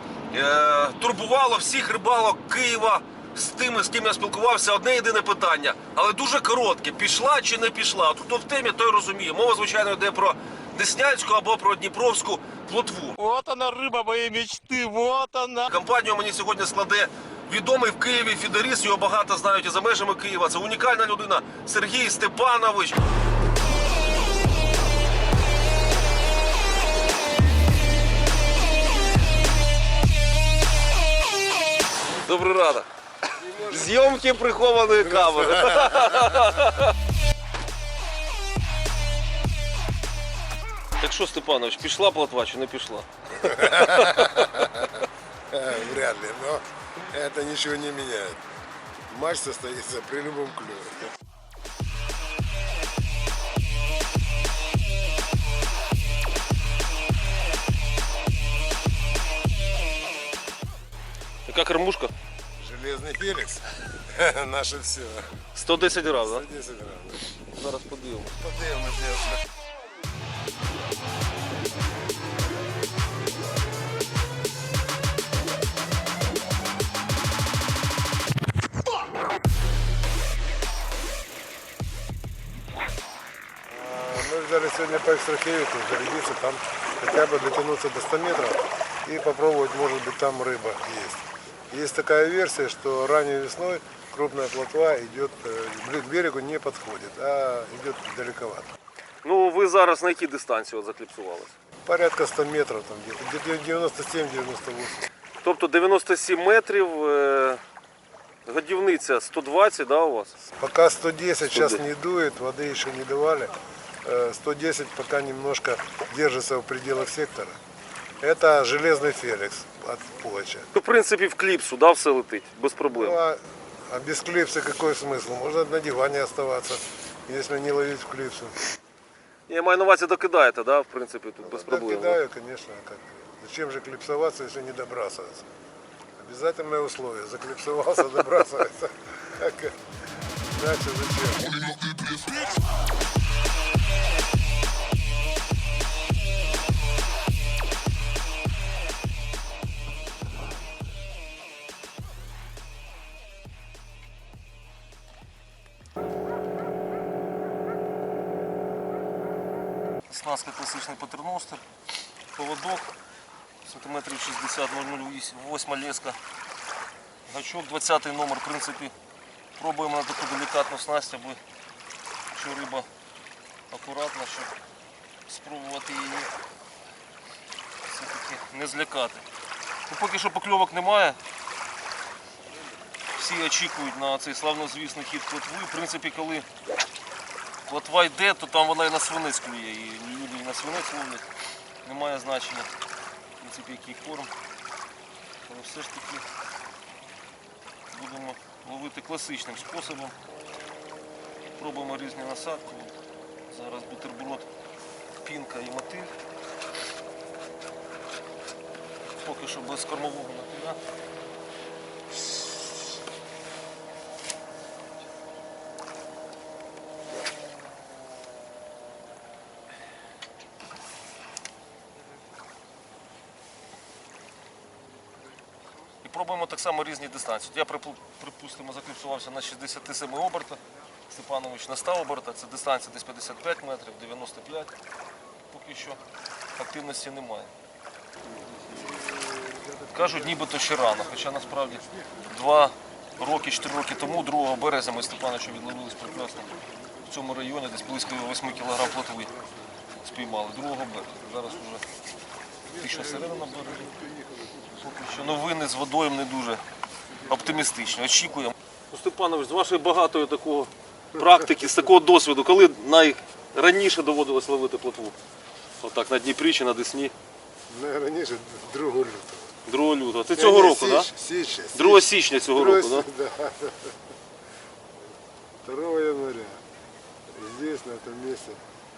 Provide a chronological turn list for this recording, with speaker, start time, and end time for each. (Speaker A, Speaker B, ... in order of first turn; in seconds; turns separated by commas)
Speaker A: 0.3-13.2, Speaker B: 13.2-15.7, Speaker A: 15.7-23.0, Speaker A: 32.2-32.9, Speaker C: 33.3-34.1, Speaker A: 33.6-36.9, Speaker C: 35.0-36.4, Speaker A: 41.0-44.5, Speaker C: 43.4-48.4, Speaker C: 49.1-51.1, Speaker A: 61.5-62.1, Speaker C: 62.6-65.4, Speaker A: 65.5-66.4, Speaker C: 66.0-67.2, Speaker A: 67.3-68.4, Speaker C: 68.4-69.4, Speaker C: 83.7-98.7, Speaker A: 99.2-101.5, Speaker C: 101.8-105.0, Speaker A: 105.4-107.6, Speaker A: 108.5-110.3, Speaker C: 110.6-113.5, Speaker A: 111.4-111.8, Speaker C: 114.0-117.6, Speaker C: 118.2-120.7, Speaker A: 120.7-123.2, Speaker C: 122.9-128.6, Speaker A: 129.5-132.2, Speaker C: 131.4-135.5, Speaker C: 136.2-139.8, Speaker C: 140.5-141.7, Speaker A: 160.1-161.6, Speaker A: 162.3-162.9, Speaker A: 163.6-166.2, Speaker A: 167.3-168.9, Speaker A: 169.6-171.4, Speaker A: 172.3-172.9, Speaker A: 173.7-174.5, Speaker A: 175.3-176.3, Speaker A: 177.8-179.2, Speaker A: 179.9-181.2, Speaker A: 183.1-186.5, Speaker A: 187.7-191.2, Speaker A: 191.8-192.7, Speaker A: 193.4-194.3, Speaker A: 195.4-196.2, Speaker A: 197.9-200.1, Speaker A: 201.6-202.9, Speaker A: 203.5-204.5, Speaker A: 205.2-206.1, Speaker A: 209.1-210.8, Speaker A: 226.0-234.7, Speaker A: 235.5-236.0, Speaker A: 236.6-237.5, Speaker C: 238.5-241.8, Speaker A: 239.9-249.3, Speaker A: 250.0-251.8, Speaker C: 252.7-254.7, Speaker A: 252.7-254.0, Speaker A: 254.8-256.6, Speaker A: 257.3-265.1, Speaker C: 261.3-261.7, Speaker A: 265.8-267.1, Speaker C: 267.7-269.5, Speaker A: 269.6-271.1, Speaker C: 270.3-273.9, Speaker A: 271.7-273.1, Speaker C: 275.6-276.6, Speaker C: 277.3-278.6